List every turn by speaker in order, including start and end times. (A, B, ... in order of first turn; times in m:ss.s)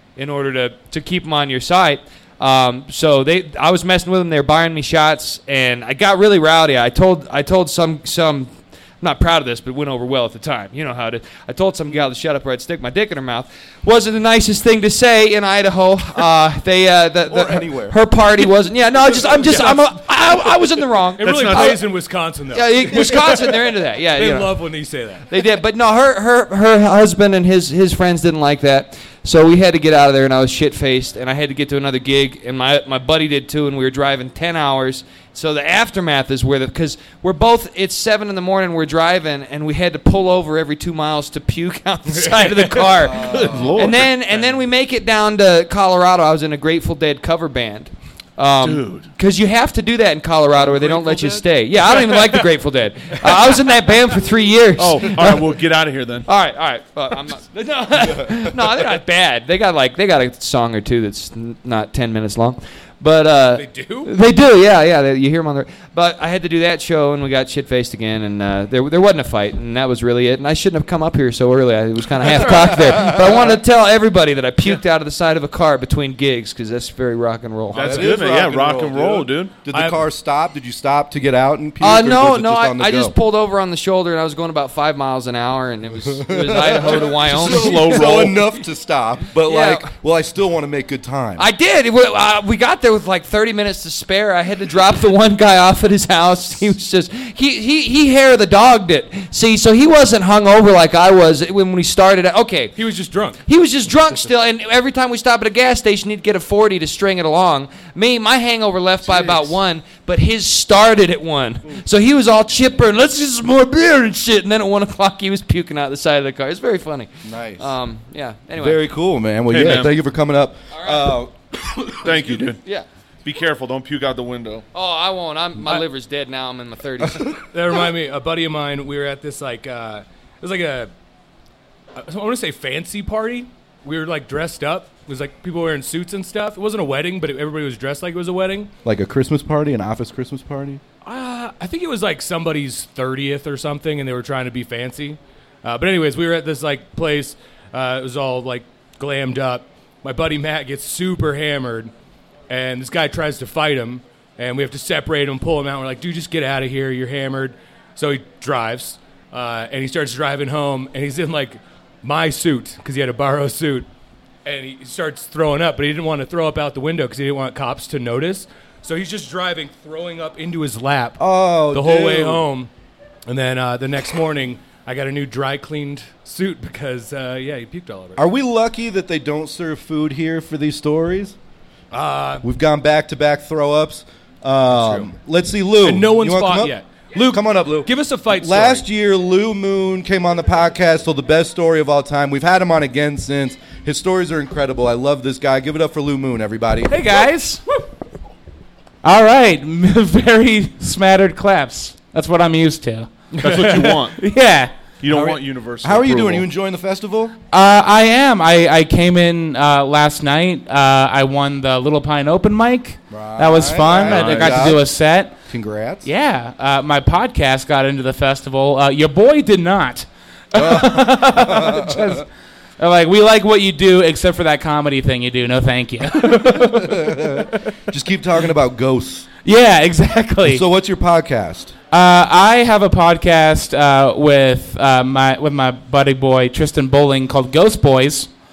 0:00.2-0:55.5 A
0:17.3-0:18.0 B
0:19.3-0:20.4 C
0:21.0-0:25.3 C
0:21.2-0:21.8 D
0:42.1-0:42.9 C
0:43.0-0:43.8 B
0:43.2-0:44.1 D
0:48.6-0:49.1 D
0:50.6-0:51.4 B
0:54.8-0:56.3 D
0:56.2-1:18.0 A
1:03.5-1:04.1 C
1:12.2-1:13.2 C
1:17.7-1:19.6 D
1:17.8-1:23.2 B
1:19.7-1:20.0 C
1:21.8-1:28.2 A
1:26.2-1:31.5 B
1:26.9-1:28.4 D
1:29.4-1:29.9 A
1:31.4-1:42.8 A
1:42.8-1:43.4 C
1:43.4-1:58.9 A
1:49.1-1:49.5 B
1:57.2-1:57.7 B
1:58.6-2:02.5 B
1:59.5-2:00.0 D
2:00.7-2:01.2 A
2:02.0-2:02.6 D
2:02.6-2:02.9 A
2:03.2-2:04.6 D
2:04.7-2:07.4 A
2:07.5-2:10.9 C
2:12.0-2:18.7 C
2:18.8-2:20.8 B
2:21.0-2:31.9 C
2:32.5-2:43.9 C
2:44.4-2:52.7 C
2:51.2-2:52.5 B
2:53.3-2:58.2 C
2:58.2-3:01.4 B
3:01.9-3:02.4 C
3:02.4-3:06.8 B
3:04.7-3:05.1 C
3:05.8-3:08.8 C
3:07.3-3:17.2 B
3:16.9-3:17.6 E
3:19.0-3:23.2 E
3:23.4-3:24.2 D
3:23.4-3:24.0 C
3:24.2-3:24.7 E
3:25.0-3:26.5 D
3:25.8-3:27.4 B
3:27.5-3:35.3 E
3:33.1-3:36.1 B
3:34.0-3:34.5 D
3:36.0-3:42.3 E
3:40.5-3:42.2 B
3:42.8-3:47.5 E
3:46.3-3:49.3 B
3:49.4-3:50.6 E
3:50.5-3:51.7 B
3:51.9-3:58.3 E